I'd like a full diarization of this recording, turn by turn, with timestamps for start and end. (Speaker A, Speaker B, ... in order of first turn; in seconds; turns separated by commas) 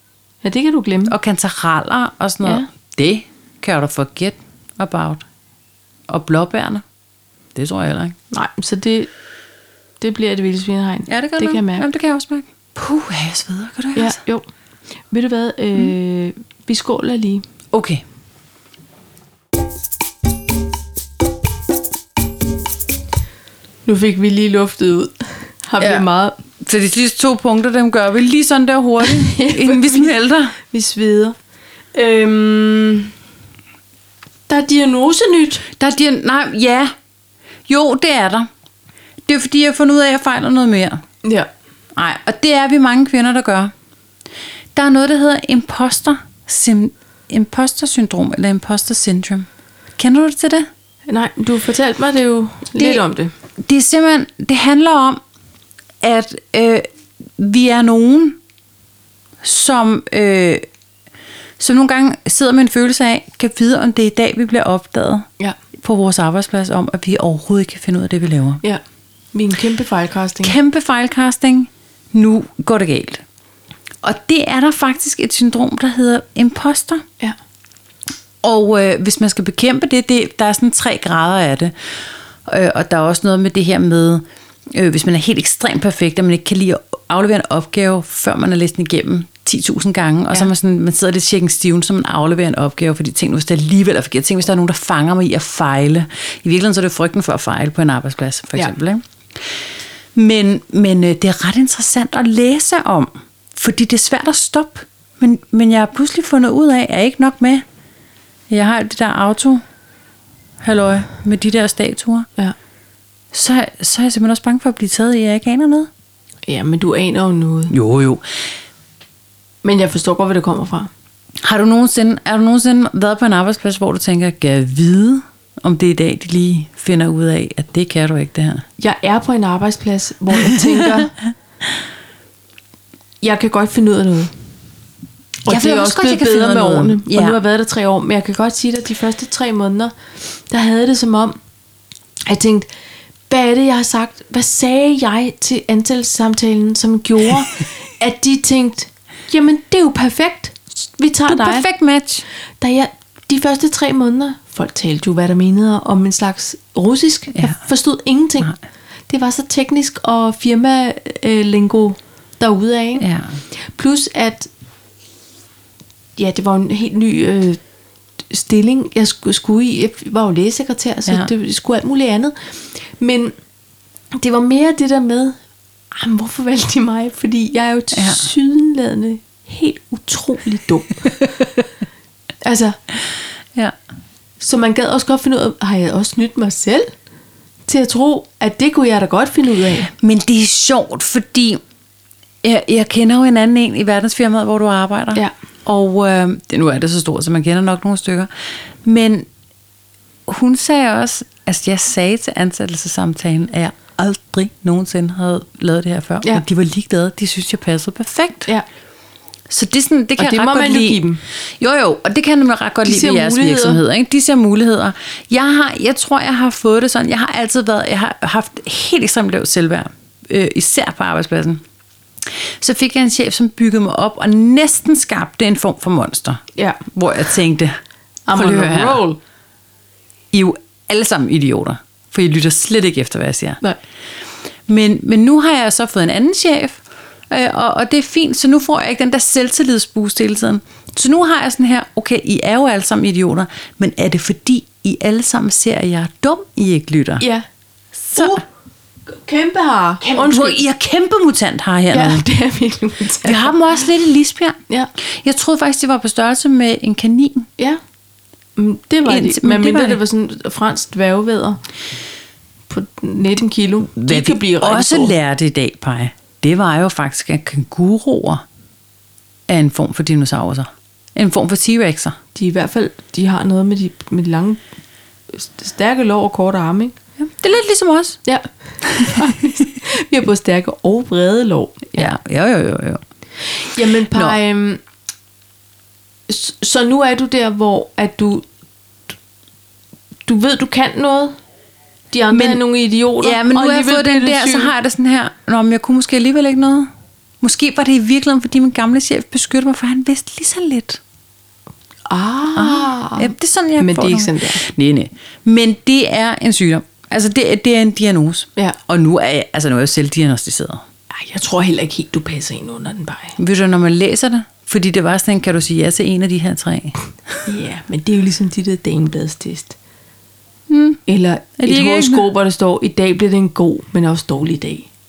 Speaker A: 0.4-1.1, Speaker B: 1.1-5.2, Speaker B: 6.1-6.8, Speaker B: 7.5-8.1, Speaker A: 8.3-9.1, Speaker A: 10.0-11.8, Speaker B: 11.1-14.2, Speaker A: 13.9-14.4, Speaker A: 15.1-17.4, Speaker B: 17.7-18.0, Speaker A: 23.9-26.4, Speaker B: 25.8-26.1, Speaker B: 26.6-30.5, Speaker A: 29.0-31.4, Speaker A: 31.9-33.1, Speaker A: 34.5-35.7, Speaker B: 35.7-36.9, Speaker B: 37.7-38.5, Speaker B: 39.2-41.0, Speaker A: 41.2-41.5, Speaker B: 41.9-43.7, Speaker B: 44.7-50.7, Speaker A: 51.1-53.3, Speaker B: 52.8-53.0, Speaker B: 53.6-55.2, Speaker B: 56.0-56.9, Speaker B: 57.4-58.4, Speaker B: 59.4-60.6, Speaker B: 61.6-68.6, Speaker A: 69.3-70.6, Speaker B: 70.4-73.2, Speaker B: 74.0-77.0, Speaker B: 78.4-81.7, Speaker B: 82.5-99.0, Speaker B: 100.1-107.6, Speaker B: 108.5-109.6, Speaker B: 110.6-112.3, Speaker B: 113.3-115.9, Speaker A: 116.5-117.7, Speaker B: 117.7-118.2, Speaker A: 119.6-120.9, Speaker B: 121.4-128.6, Speaker A: 128.8-131.1, Speaker B: 130.4-131.1, Speaker A: 133.2-134.3, Speaker A: 135.4-141.4, Speaker B: 135.5-137.4, Speaker A: 142.2-142.7, Speaker A: 143.3-151.7, Speaker B: 151.3-152.2, Speaker A: 152.6-158.5, Speaker A: 159.1-163.1, Speaker B: 163.0-163.4, Speaker A: 163.7-164.5, Speaker A: 166.2-167.6, Speaker A: 168.3-173.3, Speaker A: 174.1-175.4, Speaker A: 175.9-181.4, Speaker B: 177.9-178.2, Speaker A: 182.4-182.8, Speaker A: 184.4-186.9, Speaker A: 187.7-189.9, Speaker B: 189.9-191.6, Speaker B: 192.4-198.3, Speaker B: 198.8-199.3, Speaker B: 200.3-208.5, Speaker B: 209.5-211.0, Speaker A: 210.2-211.2, Speaker B: 211.6-221.6, Speaker A: 212.8-213.8, Speaker B: 222.3-227.8, Speaker A: 226.6-226.8, Speaker A: 228.3-229.2, Speaker B: 228.3-229.0, Speaker B: 230.3-233.6, Speaker B: 234.7-247.2, Speaker A: 247.2-247.4, Speaker A: 248.1-248.4, Speaker B: 248.1-248.4, Speaker A: 249.1-250.6, Speaker B: 250.0-252.2, Speaker A: 251.9-253.5, Speaker B: 253.2-257.5, Speaker A: 258.6-261.6, Speaker B: 259.0-260.0, Speaker A: 262.7-265.1, Speaker B: 264.0-268.4, Speaker B: 269.5-272.2, Speaker A: 272.3-274.6, Speaker A: 275.3-276.9, Speaker B: 277.2-278.2, Speaker A: 278.2-282.1, Speaker B: 278.8-279.5, Speaker B: 281.9-283.0, Speaker A: 283.6-284.8, Speaker B: 284.0-284.4, Speaker A: 286.3-288.4, Speaker A: 290.2-291.4, Speaker A: 292.1-294.7, Speaker B: 292.3-292.6, Speaker B: 293.2-296.9, Speaker B: 297.4-301.0, Speaker A: 302.1-304.6, Speaker B: 302.5-310.8, Speaker A: 311.1-313.4, Speaker B: 313.4-317.0, Speaker A: 317.4-319.8, Speaker B: 320.7-321.0, Speaker A: 321.1-324.9, Speaker B: 321.6-322.2